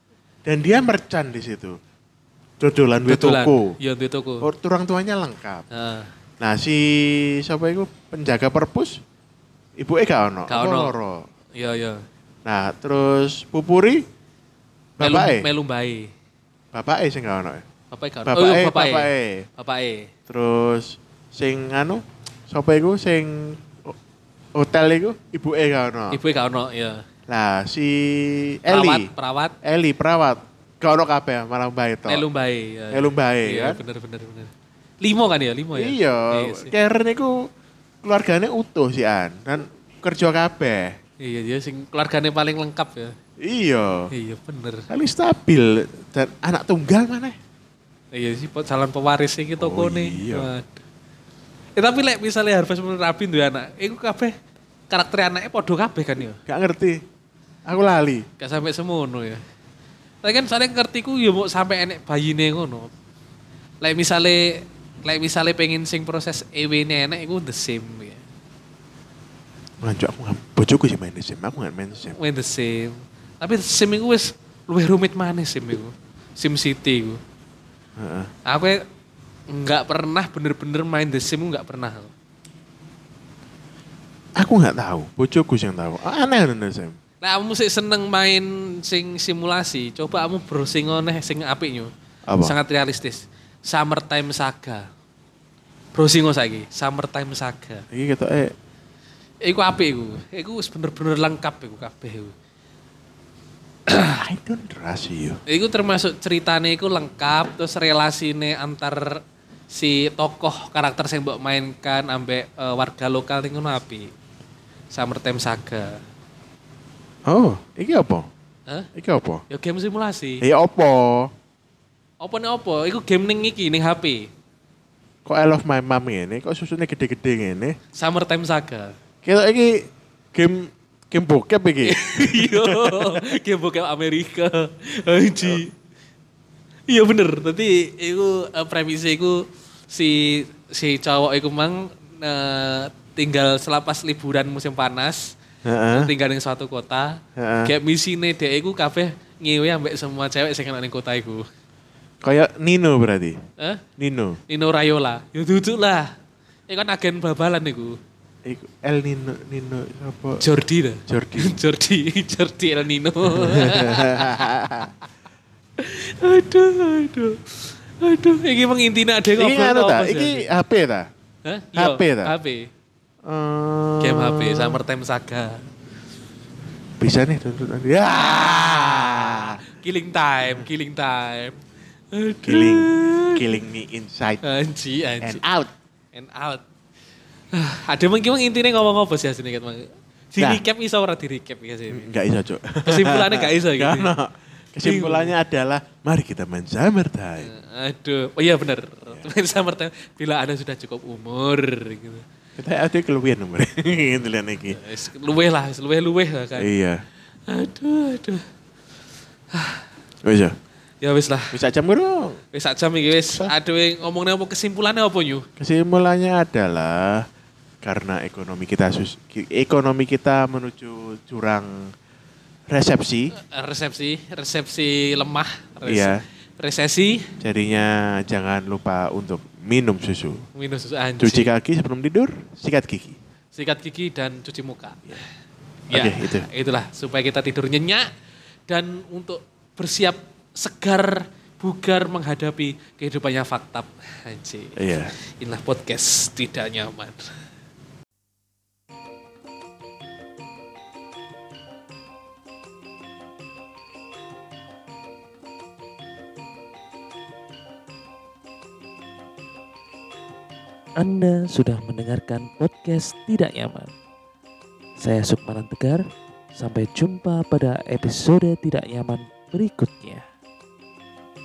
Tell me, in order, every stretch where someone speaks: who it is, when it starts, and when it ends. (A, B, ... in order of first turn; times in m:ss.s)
0:00.4-0:01.8 A
0:02.6-0:03.8 A
0:03.1-0:04.5 B
0:04.4-0:05.6 A
0:05.7-0:06.1 B
0:06.4-0:09.0 A
0:09.8-0:11.3 A
0:10.5-0:10.9 B
0:11.6-0:12.0 B
0:12.4-0:14.0 A
0:15.0-0:15.5 A
0:15.0-0:16.1 B
0:16.7-0:17.6 A
0:17.9-0:20.1 B
0:18.3-0:19.5 A
0:20.3-0:24.0 A
0:24.5-0:26.2 A
0:26.1-0:27.0 B
0:27.3-0:29.1 A
0:28.7-0:29.6 B
0:29.6-0:32.2 A
0:32.1-0:36.7 B
0:32.9-0:33.8 A
0:35.7-0:37.5 A
0:38.0-0:41.0 A
0:41.2-0:43.2 B
0:43.4-0:44.1 A
0:44.1-0:44.9 B
0:44.9-0:47.4 A
0:48.1-0:50.8 B
0:49.6-0:50.5 A
0:51.8-0:54.3 B
0:54.9-0:56.4 B
0:56.4-0:57.0 A
0:57.6-0:58.3 A
0:58.4-0:59.4 B
1:00.2-1:02.9 B
1:03.8-1:08.2 B
1:09.8-1:12.2 A
1:12.2-1:17.2 B
1:18.0-1:18.3 A
1:18.5-1:18.8 B
1:19.5-1:22.1 B
1:24.4-1:27.0 A
1:27.2-1:34.9 B
1:32.3-1:32.6 A
1:36.0-1:37.9 B
1:37.9-1:38.5 A
1:39.4-1:42.3 B
1:43.9-1:44.2 B
1:44.0-1:45.4 A
1:45.5-1:54.1 B
1:54.9-1:56.0 B
1:57.2-1:58.3 A
1:59.0-1:59.4 A
1:59.5-2:00.4 B
2:00.4-2:01.3 A
2:02.2-2:04.3 B
2:05.2-2:07.8 A
2:07.9-2:09.0 B
2:09.2-2:13.3 A
2:11.8-2:15.7 B
2:16.9-2:25.4 B
2:25.6-2:26.1 A
2:25.9-2:31.4 B
2:27.4-2:27.7 A
2:32.2-2:33.4 A
2:33.6-2:33.8 B
2:34.0-2:34.4 A
2:34.5-2:36.1 B
2:36.7-2:38.0 B
2:38.4-2:40.4 A
2:40.4-2:44.9 B
2:41.1-2:41.6 A
2:43.3-2:44.9 A
2:45.8-2:50.5 B
2:49.4-2:51.1 A
2:51.4-2:52.7 B
2:51.8-2:52.3 A
2:53.2-2:54.8 A
2:54.0-2:55.6 B
2:57.0-2:59.6 A
2:58.1-3:01.6 B
3:02.1-3:03.4 B
3:02.4-3:04.4 A
3:04.4-3:05.4 B
3:05.2-3:05.7 A
3:06.1-3:06.6 B
3:07.5-3:12.1 B
3:11.9-3:17.5 A
3:12.8-3:14.1 B
3:14.8-3:15.3 B
3:17.4-3:22.2 B
3:22.6-3:24.8 A
3:24.7-3:26.7 B
3:26.6-3:27.0 A
3:27.5-3:28.4 B
3:29.5-3:29.8 B
3:30.2-3:30.6 A
3:31.0-3:31.6 B
3:31.5-3:32.4 A
3:32.5-3:35.4 B
3:35.6-3:37.3 A
3:37.8-3:41.9 A
3:42.7-3:43.3 A
3:43.3-3:47.3 B
3:45.8-3:46.2 A
3:47.4-3:50.4 A
3:50.6-3:51.5 B
3:51.2-3:53.2 A
3:53.5-3:55.2 B
3:55.9-3:56.5 A
3:55.9-3:58.1 B
3:58.7-4:04.8 B
4:04.8-4:05.1 A
4:05.4-4:07.3 B
4:21.0-4:23.9 C
4:25.0-4:30.2 C